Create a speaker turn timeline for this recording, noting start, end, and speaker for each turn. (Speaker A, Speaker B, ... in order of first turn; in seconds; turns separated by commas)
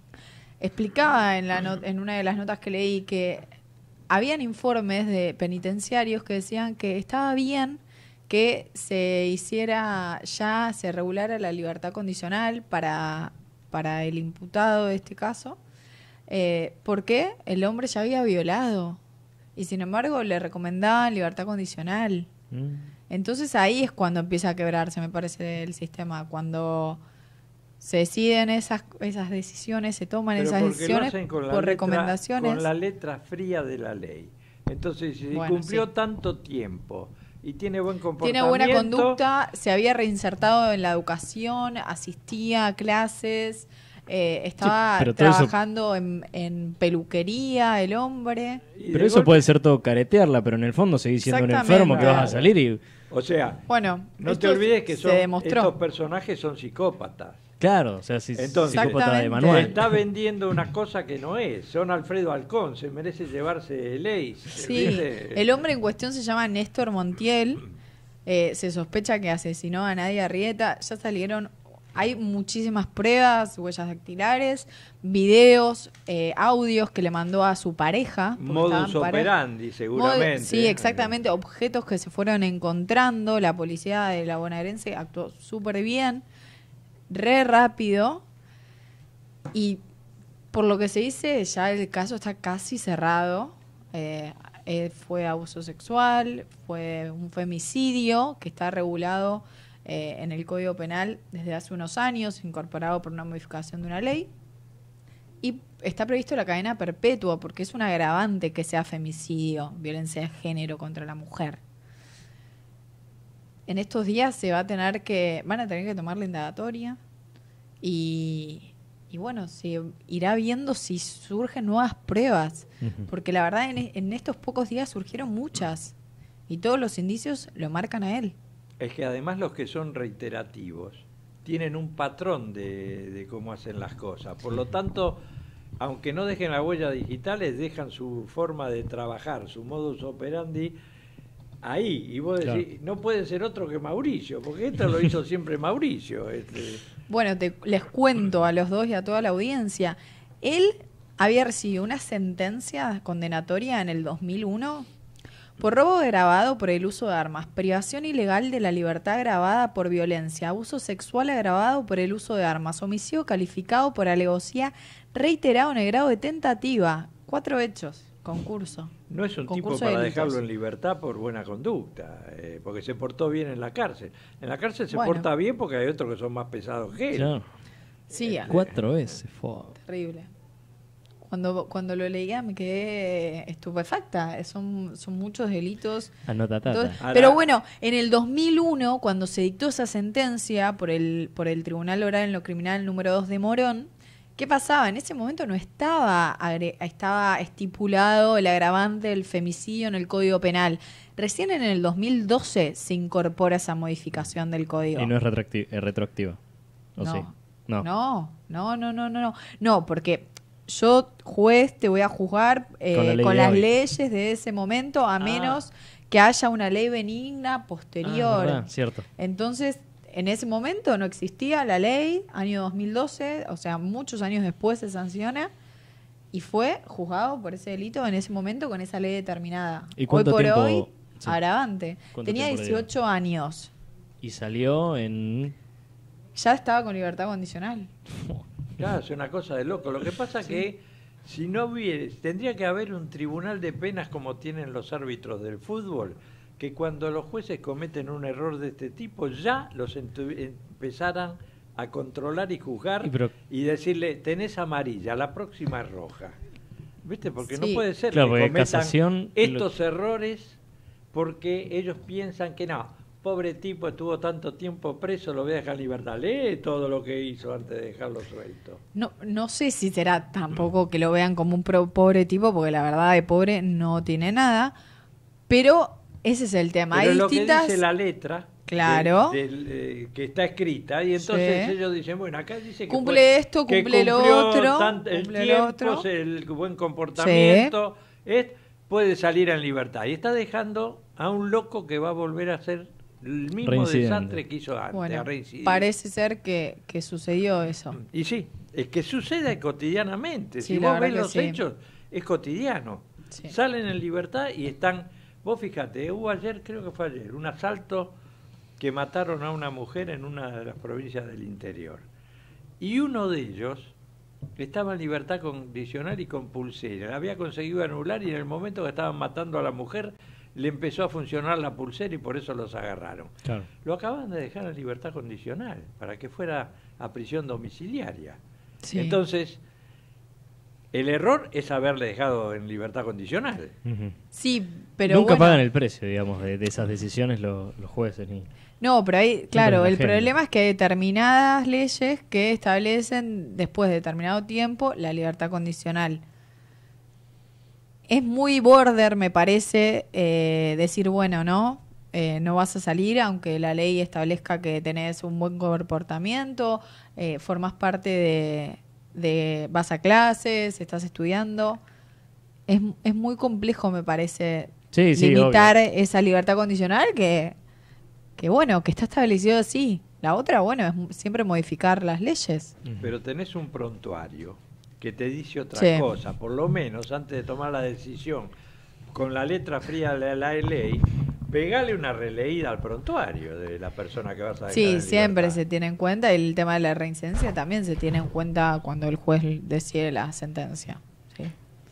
Speaker A: 0.6-3.5, Speaker A: 4.1-15.6, Speaker A: 16.3-19.0, Speaker A: 19.6-22.3, Speaker B: 22.5-22.9, Speaker A: 23.1-27.0, Speaker A: 27.8-32.7, Speaker C: 30.4-39.2, Speaker A: 35.3-35.9, Speaker A: 38.2-48.6, Speaker B: 44.6-45.5, Speaker C: 48.8-49.5, Speaker B: 48.9-52.8, Speaker A: 51.2-52.3, Speaker C: 52.0-52.5, Speaker C: 53.1-53.7, Speaker A: 53.7-55.7, Speaker C: 54.2-57.5, Speaker B: 57.6-59.9, Speaker C: 58.4-65.6, Speaker A: 58.7-59.8, Speaker A: 64.6-67.6, Speaker A: 68.3-79.3, Speaker C: 78.4-81.2, Speaker A: 80.0-86.2, Speaker A: 87.1-88.2, Speaker A: 89.5-89.8, Speaker A: 90.5-104.3, Speaker A: 105.4-111.6, Speaker A: 113.7-117.0, Speaker A: 117.8-126.0, Speaker B: 122.8-123.1, Speaker A: 126.5-128.3, Speaker C: 128.8-135.2, Speaker C: 135.8-140.8, Speaker C: 141.6-146.8, Speaker A: 147.1-154.9, Speaker A: 155.6-168.9, Speaker C: 169.1-177.3, Speaker A: 169.5-170.4, Speaker A: 174.9-175.3, Speaker B: 177.1-177.5, Speaker A: 178.1-178.5, Speaker C: 178.1-179.2, Speaker B: 178.5-179.7, Speaker A: 179.8-180.3, Speaker A: 181.2-205.1, Speaker B: 186.3-187.0, Speaker C: 187.0-187.4, Speaker B: 205.0-206.4, Speaker B: 207.0-207.9, Speaker A: 207.0-225.5, Speaker B: 212.9-213.7, Speaker B: 215.2-215.6, Speaker B: 218.0-219.1, Speaker A: 226.3-233.7, Speaker B: 230.0-231.4, Speaker B: 232.1-232.9, Speaker B: 234.2-235.5, Speaker A: 236.3-237.9, Speaker B: 238.2-238.4, Speaker C: 238.8-256.4, Speaker B: 253.0-253.3, Speaker C: 257.0-260.6, Speaker A: 257.6-257.8, Speaker B: 258.1-259.7, Speaker C: 261.1-268.8, Speaker A: 268.9-274.8, Speaker A: 275.5-277.8, Speaker C: 276.9-295.9, Speaker A: 278.7-279.4, Speaker A: 281.2-281.7, Speaker A: 282.9-286.1, Speaker A: 287.2-287.7, Speaker B: 293.6-294.4, Speaker A: 294.9-298.0, Speaker C: 298.0-308.1, Speaker A: 300.6-301.6, Speaker C: 308.8-312.0, Speaker C: 312.8-313.9, Speaker C: 314.6-328.4, Speaker A: 328.8-329.2, Speaker C: 328.9-329.6, Speaker C: 330.9-333.8, Speaker B: 333.9-334.1, Speaker A: 334.3-335.6, Speaker B: 335.1-338.5, Speaker A: 338.8-346.2, Speaker B: 339.6-340.3, Speaker A: 348.1-361.8, Speaker A: 362.7-367.6, Speaker B: 364.9-365.7, Speaker A: 368.4-372.8, Speaker B: 372.9-373.1, Speaker C: 373.0-378.5, Speaker A: 375.8-376.1, Speaker C: 379.1-385.6, Speaker A: 384.7-391.5